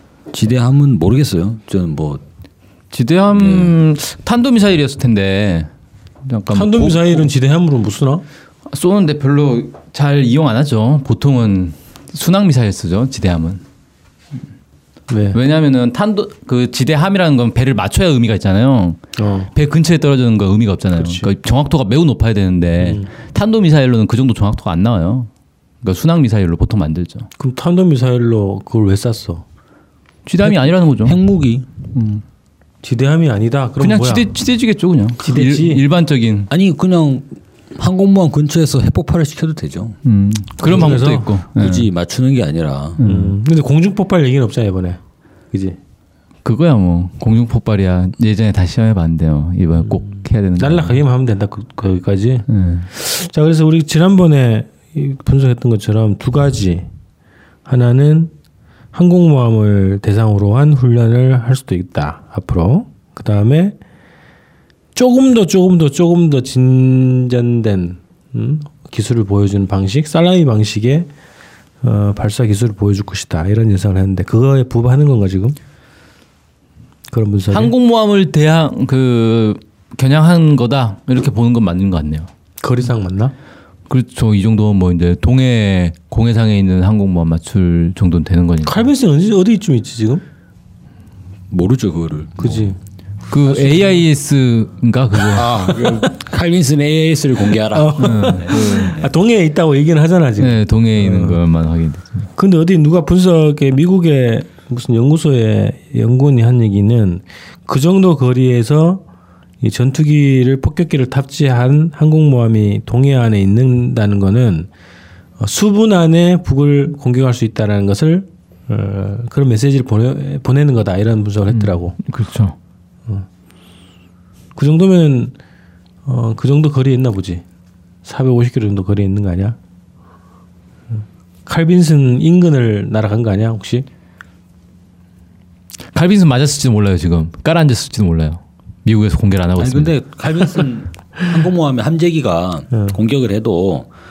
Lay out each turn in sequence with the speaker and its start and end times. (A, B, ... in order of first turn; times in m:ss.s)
0:00.3-0:02.2 A
0:02.9-0:05.7 B
0:03.3-0:03.8 A
0:06.2-0:07.3 B
0:06.5-0:08.2 C
0:08.7-0:13.6 B
0:15.1-0:15.4 C
0:15.3-0:19.0 B
0:19.2-0:19.5 C
0:19.5-0:25.3 B
0:20.9-0:21.3 C
0:22.8-0:23.1 C
0:25.8-0:27.3 B
0:27.4-0:29.4 C
0:30.2-0:31.2 B
0:30.4-0:31.7 A
0:31.9-0:32.2 B
0:32.8-0:34.3 C
0:33.8-0:36.5 B
0:35.2-0:35.8 C
0:36.5-0:40.0 A
0:40.0-0:41.9 B
0:40.6-0:41.3 C
0:40.7-0:41.0 A
0:41.5-0:43.0 A
0:43.0-0:43.3 B
0:43.0-0:45.0 C
0:45.5-0:45.8 C
0:46.4-0:51.0 B
0:50.6-0:56.9 C
0:52.5-0:52.9 B
0:57.6-0:58.3 C
0:58.9-1:03.8 C
1:04.9-1:11.1 C
1:11.8-1:15.6 C
1:17.1-1:17.7 C
1:17.5-1:22.3 B
1:22.6-1:23.3 C
1:23.9-1:28.8 B
1:28.6-1:30.2 C
1:31.5-1:32.7 A
1:32.4-1:32.8 C
1:33.3-1:35.6 B
1:33.4-1:34.0 C
1:35.2-1:38.8 A
1:35.6-1:36.1 C
1:37.5-1:41.4 C
1:38.0-1:39.0 B
1:40.4-1:42.3 B
1:42.4-1:49.0 C
1:49.6-1:54.7 C
1:55.4-2:02.0 C
2:01.5-2:02.6 B
2:04.6-2:05.4 C
2:06.0-2:07.4 C
2:08.0-2:09.6 C
2:11.4-2:13.8 C
2:15.9-2:19.9 B
2:19.6-2:23.9 A